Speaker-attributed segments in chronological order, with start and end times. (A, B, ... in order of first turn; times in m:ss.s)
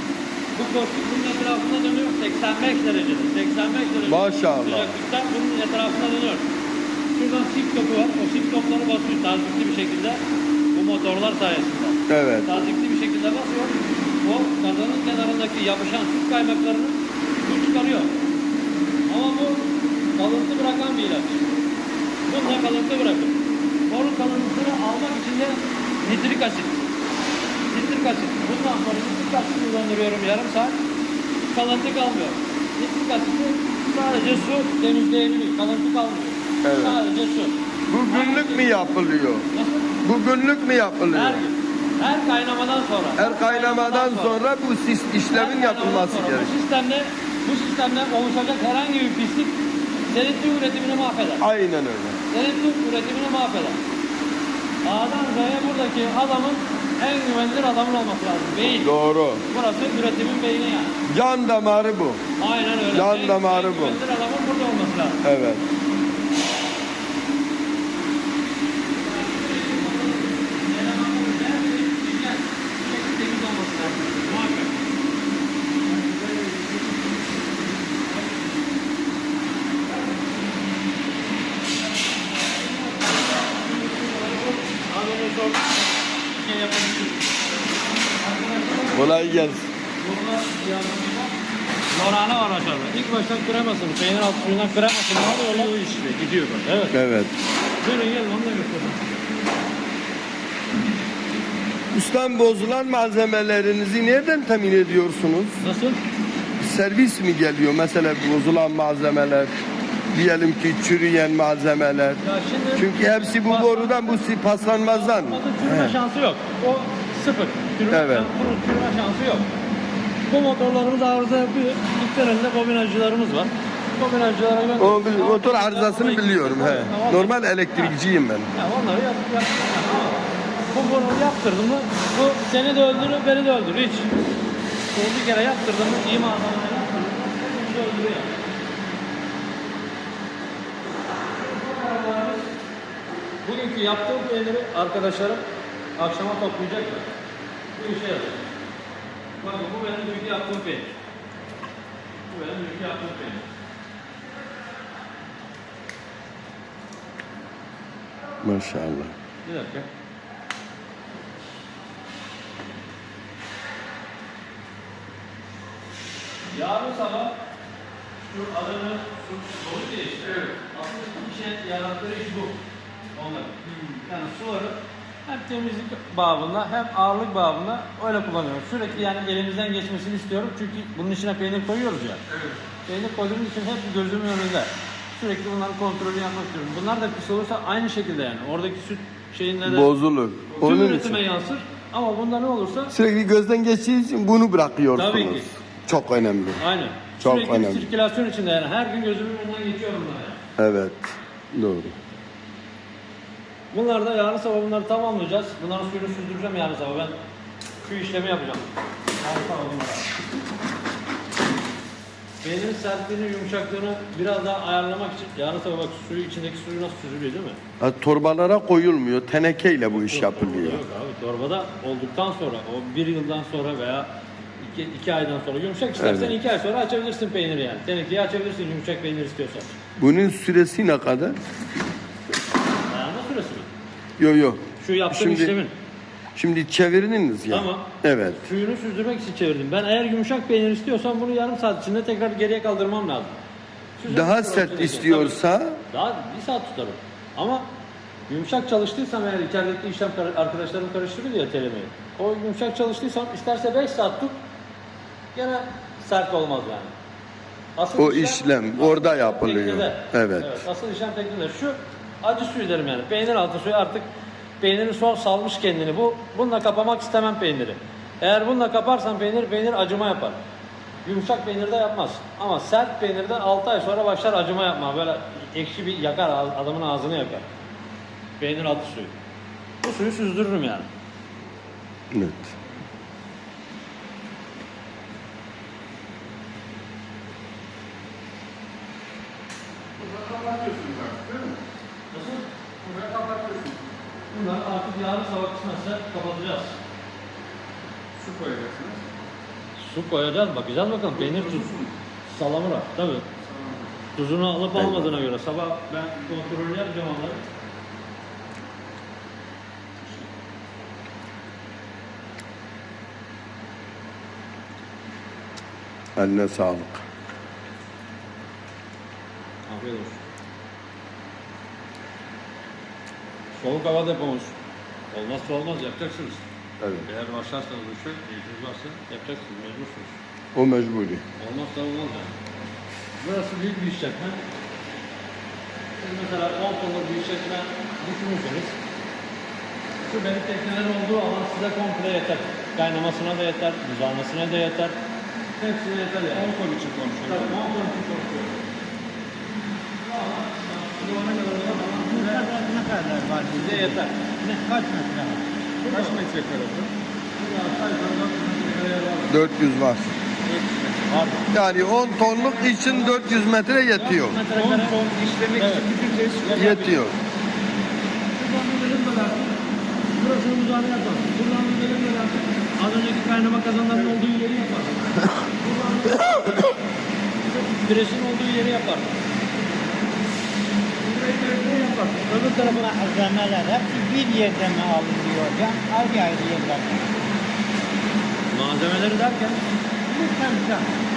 0:00.5-0:06.4 A
0:04.1-0:05.0 B
0:07.2-0:10.2 A
0:10.7-0:18.1 A
0:12.1-0:12.7 B
0:19.1-0:21.4 A
0:22.3-0:26.7 A
0:27.7-0:30.8 A
0:31.5-0:37.6 A
0:36.6-0:37.0 B
0:37.9-0:39.5 B
0:38.1-0:38.9 A
0:39.5-0:39.9 A
0:40.0-0:41.4 B
0:41.1-0:44.4 A
0:43.2-0:46.6 B
0:45.3-0:49.6 A
0:50.1-0:51.4 A
0:51.4-0:52.2 B
0:52.3-0:53.8 A
0:54.8-0:58.9 A
0:58.8-0:59.4 B
0:59.5-1:00.9 A
1:01.1-1:02.2 B
1:02.4-1:05.2 A
1:02.9-1:04.0 B
1:05.2-1:05.6 B
1:08.9-1:14.8 A
1:15.9-1:16.8 A
1:17.9-1:18.5 A
1:22.0-1:29.3 A
1:28.9-1:29.7 B
1:30.0-1:31.4 A
1:31.9-1:37.0 A
1:36.9-1:37.3 B
1:37.8-1:39.1 A
1:41.9-1:45.6 B
1:45.6-1:46.0 A
1:46.6-1:49.6 B
1:50.1-1:52.2 B
1:52.2-1:59.5 A
1:52.8-1:56.0 B
1:57.9-1:58.3 B
2:00.3-2:08.0 A
2:04.8-2:08.5 B
2:08.5-2:14.1 A
2:14.9-2:18.4 A
2:21.3-2:22.5 A
2:23.4-2:25.4 A
2:26.0-2:27.1 A
2:27.7-2:28.4 A
2:29.4-2:31.0 A
2:32.3-2:33.4 A
2:38.4-2:39.1 B
2:39.4-2:39.9 A
2:46.5-2:47.4 A
2:48.2-2:52.6 A
2:53.2-3:02.2 A
2:53.6-2:54.0 C
3:02.3-3:02.6 C
3:02.9-3:09.9 A
3:09.6-3:11.2 B
3:10.6-3:13.0 A
3:12.9-3:16.6 B
3:15.0-3:15.6 A
3:16.6-3:20.4 A
3:17.2-3:17.9 B
3:20.6-3:22.0 B
3:23.7-3:27.2 A
3:27.8-3:28.7 A
3:29.2-3:30.1 A
3:32.4-3:37.6 A
3:37.8-3:40.8 B
3:40.0-3:49.8 A
3:46.0-3:46.4 B
3:50.0-3:51.4 B
3:52.9-3:53.7 A
3:54.2-3:55.6 B
3:54.8-3:55.7 A
3:56.4-3:58.4 B
3:57.5-3:57.9 A
3:58.4-4:03.4 A
4:04.0-4:05.4 A
4:04.1-4:05.8 B
4:05.9-4:07.7 A
4:08.3-4:14.3 A
4:15.4-4:16.9 A
4:17.8-4:24.1 A
4:18.0-4:20.6 B
4:24.6-4:30.4 A
4:31.0-4:37.5 A
4:38.4-4:39.1 A
4:39.8-4:40.9 A
4:42.1-4:42.5 B
4:50.0-4:51.6 C
4:52.1-4:52.4 A
4:52.8-4:53.9 C
4:54.3-4:56.8 A
4:58.2-4:59.1 C
4:59.8-5:01.7 A
5:01.1-5:02.0 C
5:02.3-5:03.3 A
5:03.4-5:03.9 C
5:04.2-5:07.4 A
5:04.8-5:05.1 B
5:05.9-5:06.4 C
5:10.0-5:10.3 C
5:16.2-5:17.0 B
5:19.7-5:20.2 A
5:23.6-5:24.6 A
5:25.1-5:26.4 A
5:26.8-5:27.1 B
5:27.1-5:30.2 A
5:30.5-5:31.2 B
5:31.4-5:32.3 A
5:33.2-5:34.4 A
5:36.0-5:38.8 A
5:40.0-5:45.0 A
5:45.6-5:46.5 A
5:46.3-5:47.6 C
5:47.2-5:48.6 A
5:50.0-5:52.5 A
5:51.8-5:55.5 D
5:53.5-5:54.4 A
5:55.8-5:56.2 A
5:55.9-5:56.9 C
5:57.4-5:59.4 A
5:59.3-6:00.1 B
6:01.0-6:05.0 A
6:01.5-6:04.4 B
6:04.5-6:07.0 C
6:05.6-6:05.9 A
6:06.4-6:07.0 A
6:06.5-6:07.2 B
6:08.4-6:09.6 A
6:10.2-6:16.8 A
6:17.4-6:19.2 A
6:21.0-6:22.9 A
6:22.4-6:27.2 D
6:28.5-6:29.6 A
6:30.1-6:30.9 D